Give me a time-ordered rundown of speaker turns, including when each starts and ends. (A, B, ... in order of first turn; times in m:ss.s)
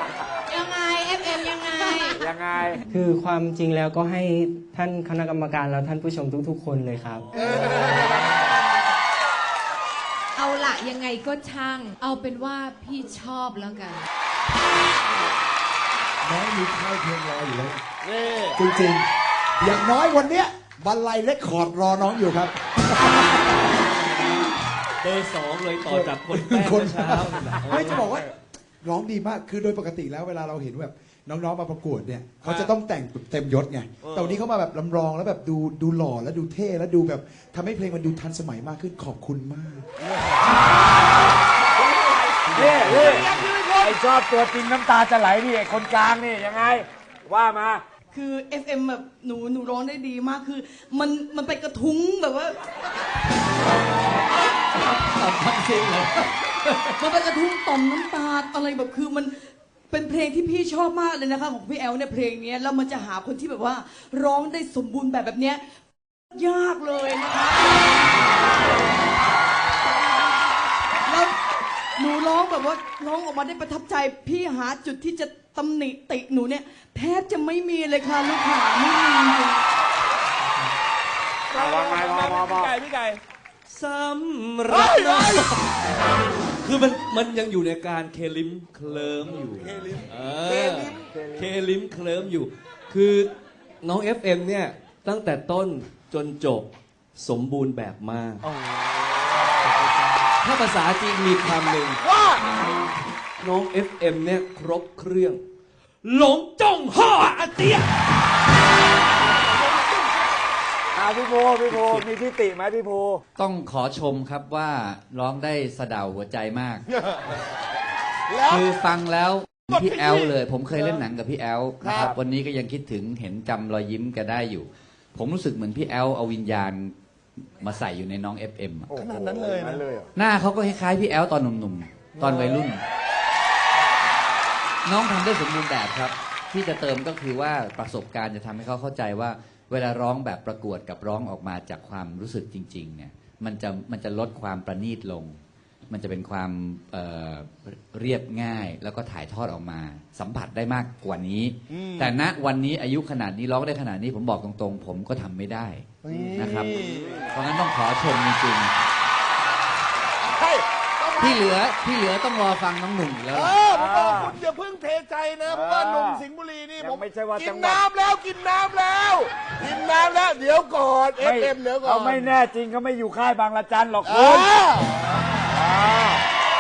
0:00.5-0:02.3 A
0:02.2-0:02.8 B
0:02.9-0:07.2 C
0:07.6-0:08.0 D
0:10.4-0:14.1 A
0:16.2-0:17.8 E
0:18.1-0:18.6 D
0:18.6-0:19.1 E
0:19.6-0:23.2 E
0:24.0-0:24.5 F
0:25.0-0:28.0 F
0:25.8-0:39.9 E
0:41.8-0:44.0 D
0:42.5-0:47.8 B
0:48.1-0:52.6 G
0:54.8-0:57.0 F
0:57.0-0:59.3 G
0:59.9-1:05.6 G
1:06.3-1:08.0 G
1:11.1-1:11.4 G
1:12.0-1:19.6 G
1:21.5-1:22.8 B
1:21.5-1:23.2 D
1:23.7-1:25.6 F
1:24.7-1:25.5 D
1:26.6-1:33.3 F
1:30.5-1:31.1 D
1:33.8-1:38.5 F
1:40.4-1:42.0 F
1:42.1-1:42.4 D
1:43.4-1:45.4 F
1:46.0-1:47.9 F
1:51.0-1:53.2 B
1:53.4-1:56.8 H
1:58.3-1:58.7 D
1:58.4-2:08.9 H
1:59.7-2:01.0 D
2:01.8-2:02.1 D
2:08.9-2:09.9 B
2:09.0-2:10.1 D
2:10.2-2:12.8 H
2:12.2-2:12.6 D
2:14.8-2:25.4 H
2:25.9-2:38.7 H
2:36.0-2:37.2 D
2:36.9-2:37.3 B
2:40.3-2:41.6 D
2:41.2-2:43.7 H
2:43.3-2:52.4 D
2:43.7-2:44.4 B
2:45.5-2:46.2 B
2:46.8-2:47.8 B
2:51.2-2:54.5 B
2:54.0-2:55.4 D
2:55.6-2:56.1 B